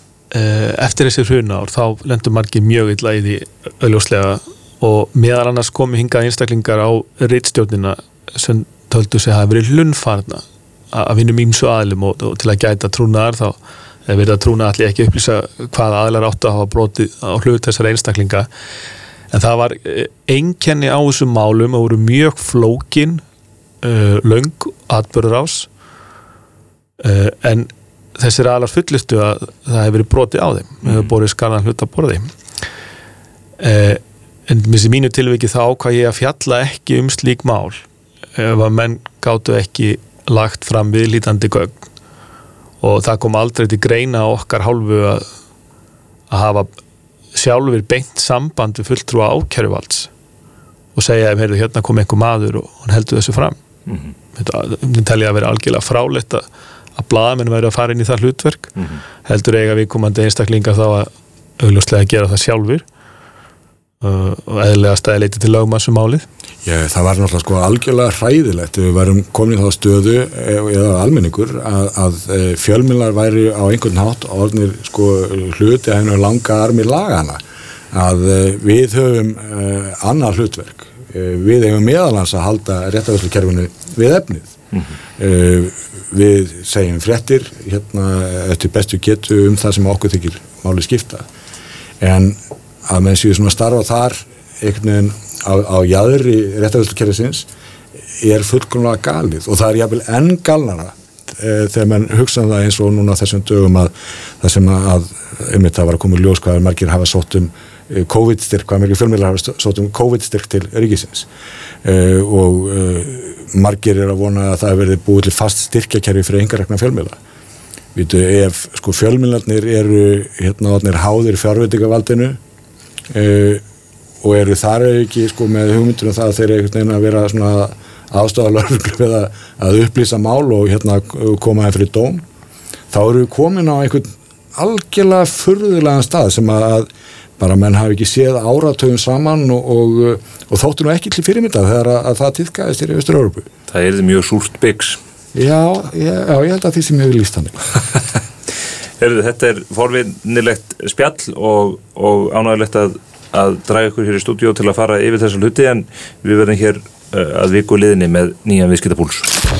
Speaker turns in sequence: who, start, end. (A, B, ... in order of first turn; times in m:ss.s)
0:00.3-0:18.5 A
0:19.3-0:23.2 A
0:23.8-0:25.7 A
0:27.0-0:32.3 A
0:33.6-0:37.8 A
0:38.4-0:41.8 A
0:42.8-0:45.3 A
0:46.3-0:46.7 A
0:47.3-0:50.1 A
0:50.9-0:53.6 A
0:53.9-0:54.1 B
0:54.3-0:58.7 A
0:59.2-1:02.8 A
1:04.0-1:06.2 A
1:06.6-1:24.5 C
1:25.2-1:31.3 C
1:32.0-1:37.5 C
1:38.2-1:51.3 C
1:51.8-1:57.2 C
1:57.9-2:02.4 C
2:03.1-2:03.6 C
2:04.2-2:12.2 C
2:12.9-2:23.5 C
2:23.7-2:25.0 B
2:25.3-2:27.7 C
2:29.0-2:39.3 B